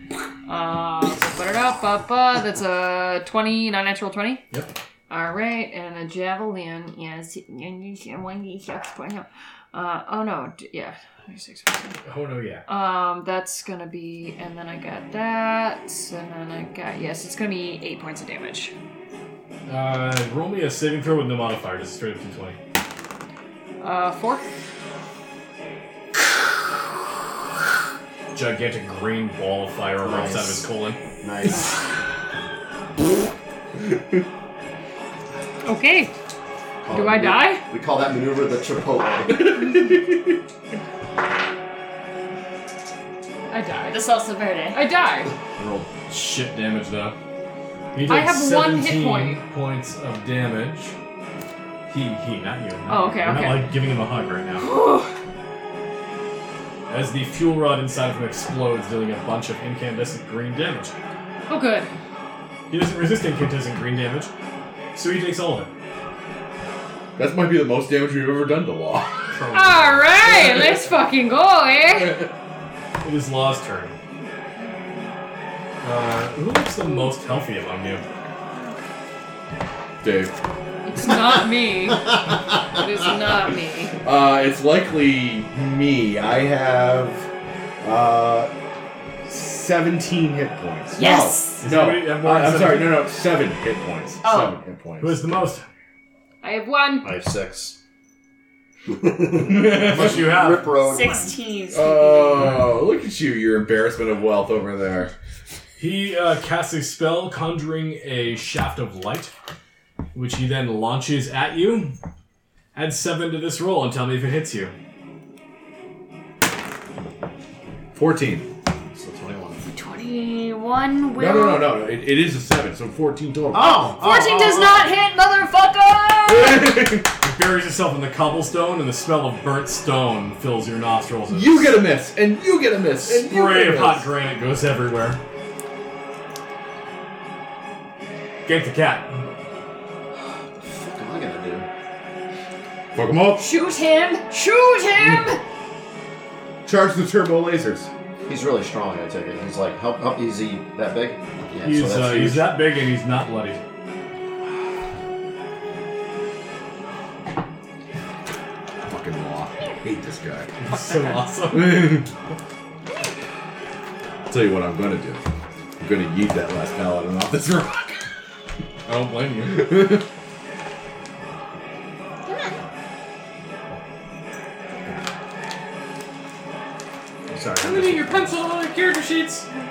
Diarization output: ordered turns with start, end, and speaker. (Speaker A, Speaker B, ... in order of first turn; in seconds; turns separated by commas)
Speaker A: 0.5-4.4, Speaker A: 5.1-12.0, Speaker B: 12.1-12.7, Speaker A: 12.7-18.7, Speaker B: 19.7-22.6, Speaker A: 23.8-24.5, Speaker B: 28.3-31.0, Speaker C: 30.0-30.7, Speaker C: 31.2-31.6, Speaker A: 35.6-36.1, Speaker C: 36.8-39.5, Speaker A: 36.9-37.6, Speaker D: 39.5-40.0, Speaker A: 43.5-44.0, Speaker E: 43.9-44.8, Speaker A: 44.7-45.3, Speaker B: 45.6-47.1, Speaker B: 47.9-51.0, Speaker A: 48.1-49.4, Speaker B: 51.9-54.7, Speaker A: 52.9-53.6, Speaker A: 54.6-55.1, Speaker B: 56.9-61.0, Speaker A: 61.5-61.9, Speaker B: 62.7-64.3, Speaker B: 65.0-65.7, Speaker D: 67.2-69.3, Speaker B: 69.3-70.1, Speaker A: 69.5-72.2, Speaker D: 70.4-70.7, Speaker D: 72.0-72.3, Speaker B: 73.0-74.0, Speaker B: 75.8-78.0, Speaker D: 80.0-80.3, Speaker A: 80.8-83.9, Speaker D: 84.0-87.3, Speaker D: 87.8-88.5, Speaker D: 89.3-95.2, Speaker E: 90.9-91.6, Speaker B: 91.6-93.0, Speaker E: 94.2-94.5, Speaker B: 95.0-95.7, Speaker A: 96.4-97.1, Speaker C: 97.0-97.8, Speaker C: 98.9-101.3, Speaker D: 99.4-100.3, Speaker B: 99.7-100.7, Speaker E: 100.8-102.5, Speaker A: 100.9-101.3, Speaker D: 101.7-105.1, Speaker B: 105.8-109.3, Speaker B: 110.1-112.0, Speaker B: 112.8-114.7, Speaker D: 117.9-118.5, Speaker C: 118.9-119.7, Speaker E: 119.8-121.8, Speaker D: 121.2-123.9, Speaker C: 123.5-124.9, Speaker E: 123.8-126.7, Speaker D: 126.3-127.1, Speaker B: 127.2-131.8, Speaker D: 131.3-134.1, Speaker B: 133.0-135.2, Speaker B: 138.5-139.2, Speaker C: 140.3-141.7, Speaker D: 142.9-143.5, Speaker E: 143.4-145.4, Speaker D: 145.0-145.2, Speaker D: 146.7-147.9, Speaker C: 148.3-152.6, Speaker B: 151.6-153.6, Speaker D: 158.8-160.5, Speaker B: 160.6-162.0, Speaker D: 161.5-162.1, Speaker D: 164.3-165.2, Speaker D: 165.8-168.0, Speaker D: 168.9-170.1, Speaker E: 172.3-172.6, Speaker B: 177.3-178.4, Speaker A: 177.6-179.5